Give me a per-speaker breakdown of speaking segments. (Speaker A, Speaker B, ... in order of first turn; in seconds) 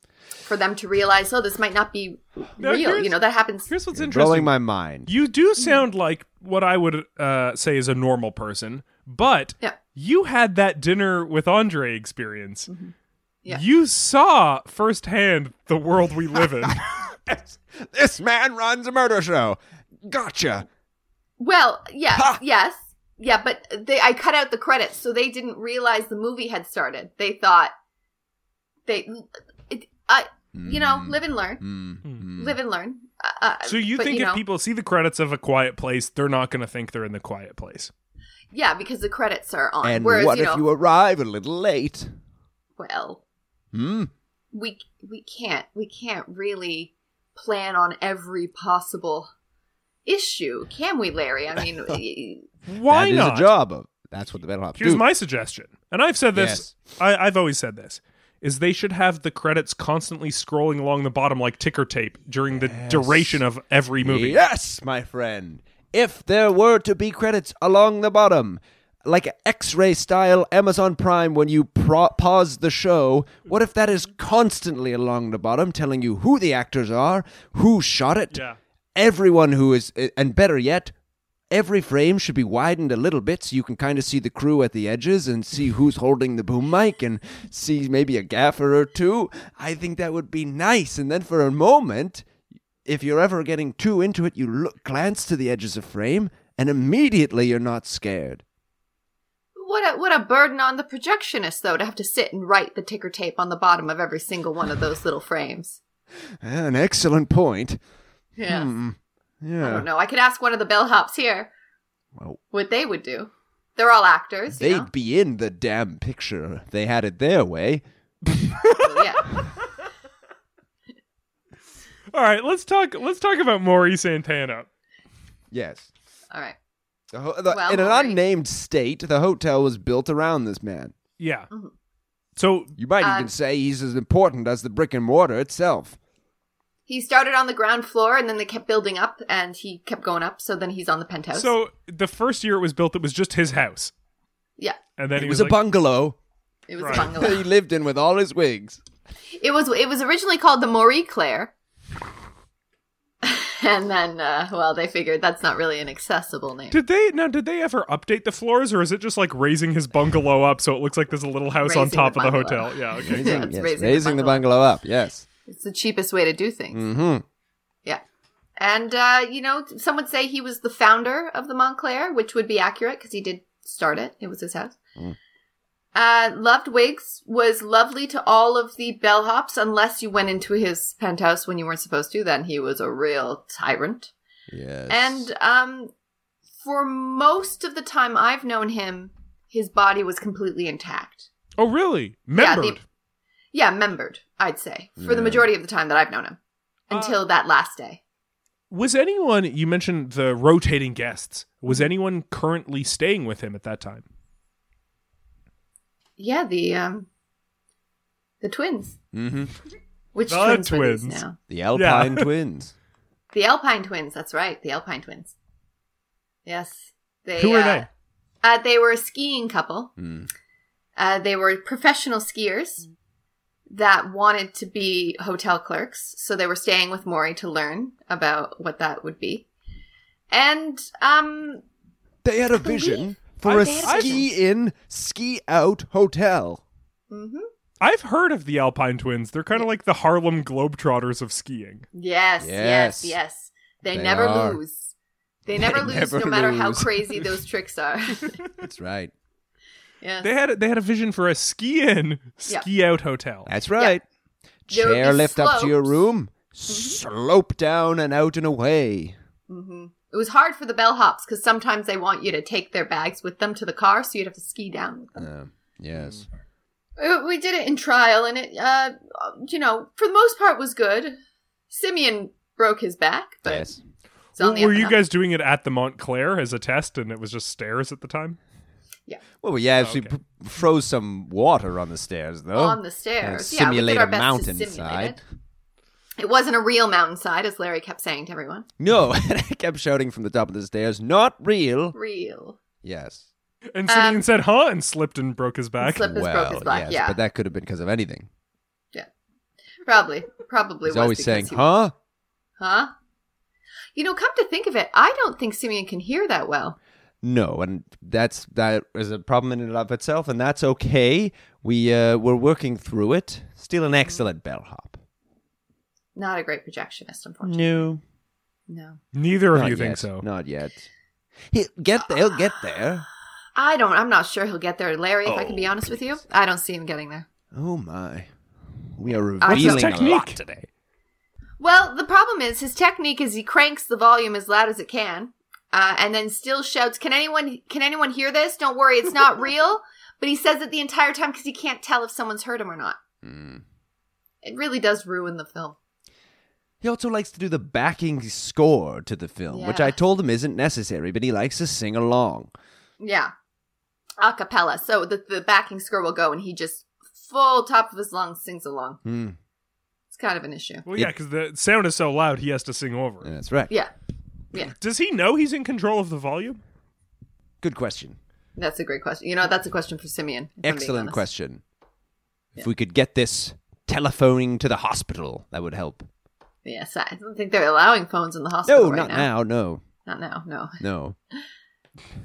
Speaker A: 0.5-3.7, 5.6-5.8, 12.7-13.6, 21.4-27.7, 28.9-31.6, 32.4-34.4, 38.5-40.6, 42.8-43.2, 44.5-49.3, 50.1-52.5, 99.6-105.8, 108.4-108.7, 109.6-111.5, 112.5-114.9, 118.7-119.3, 126.3-126.6, 127.5-128.2, 133.0-133.3, 136.9-141.5, 146.7-147.4, 149.4-151.5, 153.2-156.8, 161.6-164.5, 165.5-166.9, 168.6-174.8, 175.9-184.1, 184.9-185.9, 186.6-191.3, 192.4-192.8, 193.5-196.4, 196.9-198.0, 206.2-207.1, 208.4-209.0, 210.2-211.4, 213.3-215.3, 216.4-217.9, 218.4-219.9, 221.0-222.9, 223.7-229.5, 230.3-231.6, 232.6-234.2, 237.1-237.5, 241.9-244.9, 245.5-248.4, 250.0-250.3, 254.7-256.0, 256.7-257.0, 259.5-265.3, 267.0-271.2, 271.7-273.7, 274.4-275.0, 282.5-285.2, 286.2-288.7, 291.9-292.6, 293.9-294.2, 295.8-297.2, 299.9-301.7, 302.6-302.9, 303.9-306.8, 316.2-317.9, 318.7-319.0, 323.6-327.3, 329.4-330.0, 331.6-343.0, 344.4-345.8, 349.5-350.0, 353.0-353.3, 354.2-359.0, 360.1-360.9, 368.6-371.2, 376.6-379.3, 380.1-380.8
Speaker B: 2.6-4.5, 5.1-12.7, 13.5-16.8, 33.6-37.9, 52.7-53.5, 54.8-64.4, 78.3-78.6, 122.1-124.7, 131.2-131.5, 132.4-132.7, 141.3-143.9, 145.0-145.6, 146.8-147.1, 156.7-163.4, 191.6-192.8, 196.9-197.2, 198.7-204.1, 210.3-211.2, 211.7-212.3, 217.4-217.9, 233.8-234.2, 237.8-241.8, 250.2-253.5, 266.0-266.2, 274.4-278.4, 279.8-280.1, 293.7-296.1, 319.1-320.2, 329.5-330.4, 360.9-363.3, 364.7-366.6
Speaker C: 3.9-5.1, 16.6-20.7, 22.1-22.4, 30.6-32.6, 39.8-42.1, 43.7-44.1, 52.9-55.0, 56.3-56.7, 62.5-63.4, 64.0-78.4, 79.0-80.9, 81.5-92.3, 92.8-98.4, 106.4-107.8, 108.5-109.9, 112.2-112.4, 114.6-117.8, 125.5-125.9, 127.1-130.9, 132.8-136.0, 145.2-146.2, 146.9-148.8, 163.0-165.3, 166.7-167.2, 184.5-185.3, 195.0-195.5, 209.1-209.5, 211.5-212.7, 220.0-220.3, 232.2-236.6, 242.4-243.2, 243.9-244.6, 245.6-247.3, 248.5-249.1, 253.5-254.0, 254.7-259.1, 265.2-266.2, 273.4-273.8, 279.4-285.2, 288.8-292.0, 292.8-293.3, 296.1-298.3, 300.9-301.9, 307.2-315.0, 317.4-318.0, 319.5-320.9, 321.5-323.1, 325.2-326.2, 327.5-330.7, 343.2-343.6, 346.8-352.5, 359.0-359.4, 363.2-363.7, 367.6-368.2, 370.6-371.6, 372.6-376.1, 378.7-379.8, 380.8-381.2